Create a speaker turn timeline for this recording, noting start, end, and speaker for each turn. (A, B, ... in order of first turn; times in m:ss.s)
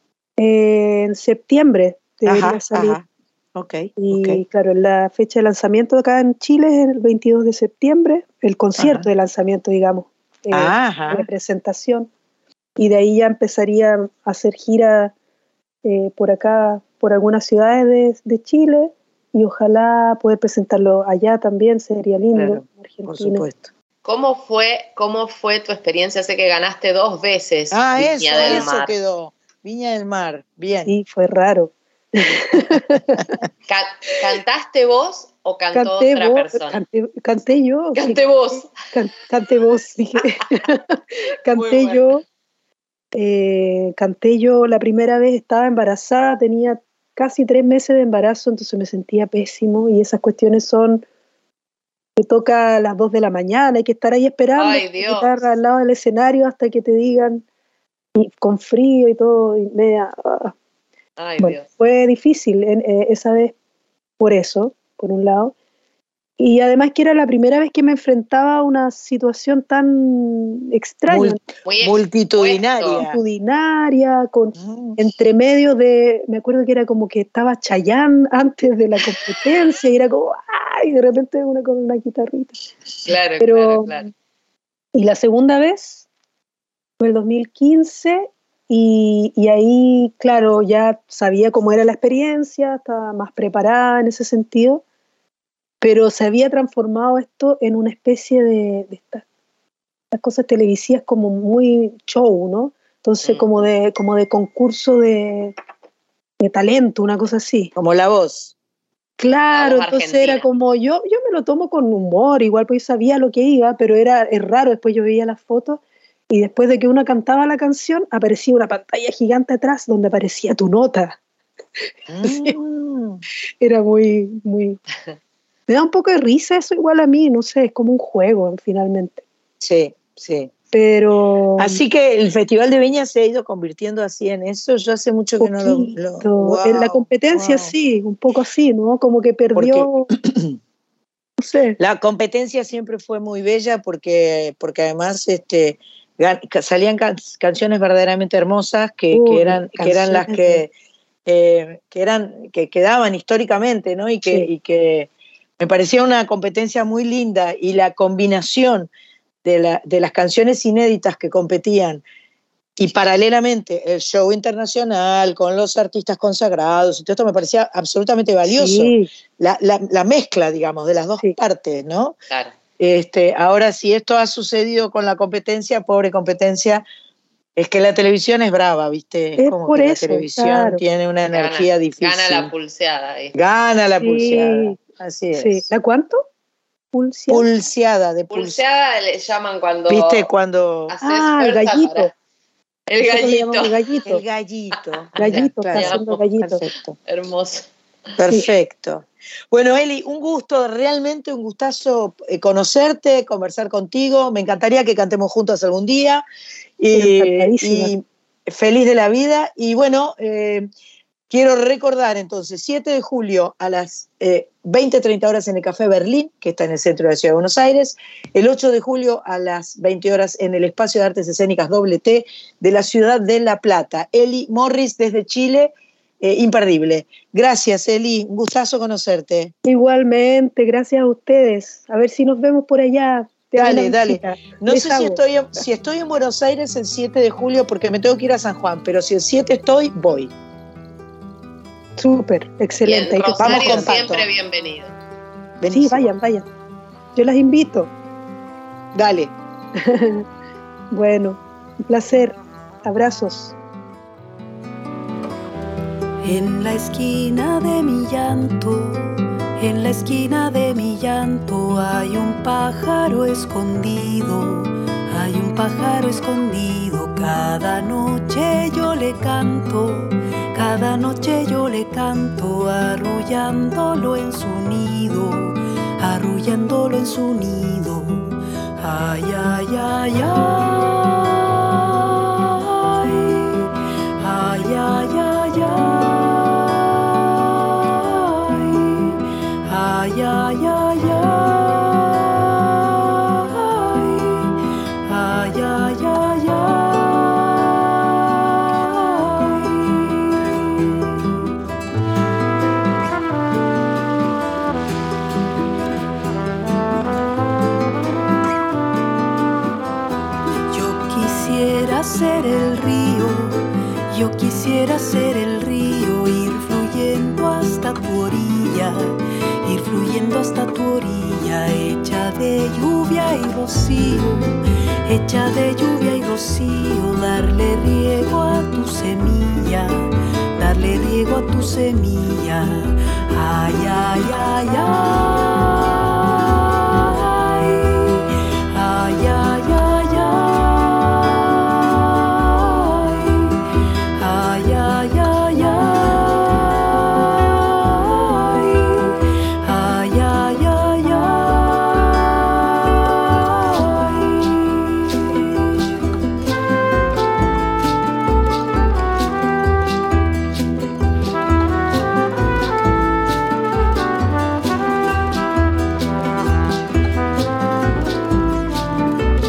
0:00.4-0:03.0 A
0:02.3-0:03.0 B
0:03.5-0:04.4 B
0:04.0-0:12.1 A
0:08.8-0:09.1 B
0:10.5-0:11.2 B
0:12.8-0:15.1 A
0:15.8-0:23.5 A
0:22.3-0:23.7 B
0:24.0-0:28.9 C
0:27.7-0:30.9 B
0:30.8-0:33.3 A
0:33.7-0:36.8 C
0:35.7-0:38.2 A
0:37.9-0:38.7 C
0:38.9-0:40.8 A
0:41.4-0:42.2 A
0:41.5-0:42.0 C
0:43.1-0:51.0 A
0:52.2-0:57.4 A
0:54.5-0:55.4 C
0:58.2-1:00.5 A
1:01.2-1:01.7 C
1:01.4-1:03.5 A
1:04.2-1:05.5 A
1:06.4-1:11.4 A
1:11.1-1:13.2 B
1:11.6-1:13.1 C
1:13.0-1:22.6 A
1:14.6-1:15.0 B
1:23.0-1:24.0 C
1:23.4-1:24.0 A
1:24.9-1:26.0 A
1:27.0-1:34.8 A
1:35.8-1:39.2 A
1:40.1-1:45.6 A
1:46.4-1:47.7 A
1:47.8-1:48.5 B
1:49.2-2:01.2 A
1:49.5-1:50.5 C
2:02.1-2:03.2 B
2:02.2-2:02.5 A
2:03.6-2:04.8 A
2:05.7-2:09.2 A
2:09.6-2:10.5 B
2:10.7-2:11.8 A
2:11.6-2:17.7 B
2:15.4-2:20.1 A
2:19.5-2:20.5 B
2:21.4-2:21.8 A
2:21.8-2:30.7 B
2:29.1-2:30.6 A
2:31.2-2:38.9 B
2:39.4-2:42.0 B
2:42.8-2:52.1 B
2:48.5-2:49.1 A
2:52.8-2:56.8 B
2:57.6-3:02.5 B
2:59.4-3:00.8 A
3:01.3-3:03.3 C
3:03.3-3:05.6 B
3:04.0-3:04.8 A
3:05.3-3:06.2 A
3:06.9-3:07.4 A
3:07.3-3:08.6 B
3:08.3-3:10.3 C
3:09.9-3:10.9 B
3:10.9-3:12.1 C
3:11.0-3:12.1 A
3:12.9-3:13.8 C
3:13.0-3:14.2 A
3:14.0-3:17.0 B
3:14.8-3:17.7 C
3:15.2-3:16.6 A
3:18.2-3:26.2 B
3:26.8-3:30.7 B
3:26.9-3:27.9 A
3:31.3-3:49.5 B
3:49.6-3:55.2 A
3:53.6-4:00.3 B
4:02.0-4:04.0 A
4:02.8-4:04.9 C
4:03.4-4:04.2 B
4:05.6-4:06.1 B
4:05.6-4:06.4 A
4:07.1-4:07.9 A
4:08.9-4:09.3 B
4:09.8-4:10.2 A
4:10.9-4:13.6 A
4:16.2-4:41.2 D
4:42.8-4:43.7 D
4:44.2-4:46.4 D
4:48.3-4:49.0 D
4:49.7-4:52.0 D
4:53.5-4:54.4 D
4:55.0-4:57.4 D
4:58.9-5:00.5 D
5:10.7-5:19.0 D
5:19.6-5:24.5 D
5:25.0-5:35.5 D
5:37.4-5:38.0 D
5:38.7-5:40.6 D
5:44.2-5:46.4 D
5:48.3-5:48.9 D
5:49.6-5:51.6 D